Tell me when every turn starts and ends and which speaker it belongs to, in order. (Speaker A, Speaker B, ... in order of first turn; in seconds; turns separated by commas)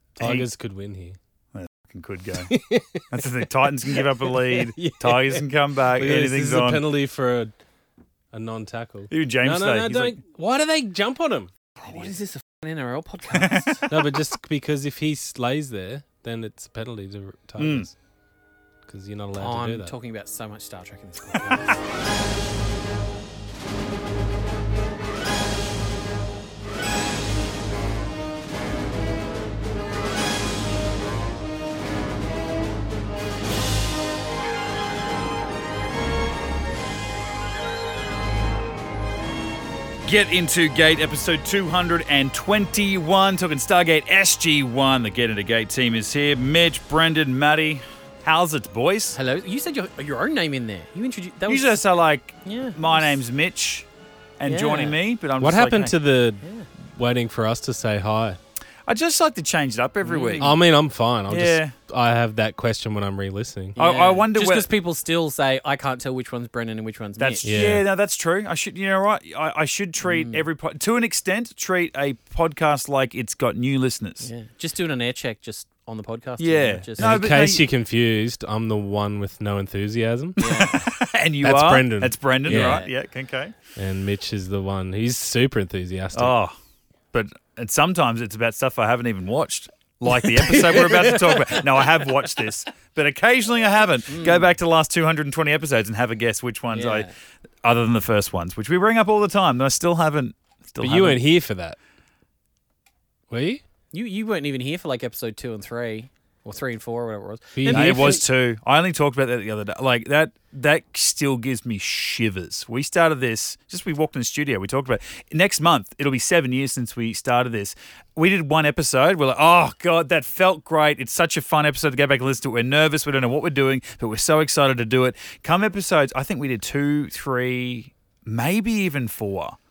Speaker A: 0.2-1.2, Speaker B: 0.2-0.5, Speaker B: 1.5-2.5, Speaker A: 2.5-7.5, Speaker B: 3.1-6.8, Speaker A: 8.3-11.5, Speaker B: 9.1-10.2, Speaker C: 11.8-13.9, Speaker B: 13.3-13.8, Speaker A: 13.9-17.9, Speaker B: 17.6-17.9, Speaker A: 18.9-19.9, Speaker C: 19.4-21.8, Speaker B: 40.0-49.1, Speaker C: 49.1-51.8, Speaker B: 51.5-53.9, Speaker C: 52.4-53.1, Speaker B: 54.4-56.0, Speaker C: 54.4-55.0, Speaker A: 55.4-58.4, Speaker B: 58.9-60.5, Speaker C: 60.0-60.5, Speaker A: 60.4-63.8, Speaker B: 61.3-61.7, Speaker C: 63.8-67.5, Speaker B: 63.8-64.7, Speaker B: 67.2-74.3, Speaker A: 67.4-67.8, Speaker C: 70.0-70.4, Speaker C: 74.2-77.2, Speaker B: 76.4-77.7, Speaker A: 77.0-80.5, Speaker C: 80.4-80.8, Speaker B: 80.4-83.5, Speaker A: 81.4-82.8, Speaker C: 82.4-82.9, Speaker A: 83.8-86.3, Speaker B: 86.1-86.5, Speaker B: 87.1-97.1, Speaker A: 90.1-92.3, Speaker C: 94.1-94.5, Speaker C: 96.7-97.1, Speaker B: 97.6-101.2, Speaker A: 100.8-101.8, Speaker A: 103.3-103.6, Speaker C: 103.9-108.2, Speaker A: 107.5-108.2, Speaker B: 107.7-129.6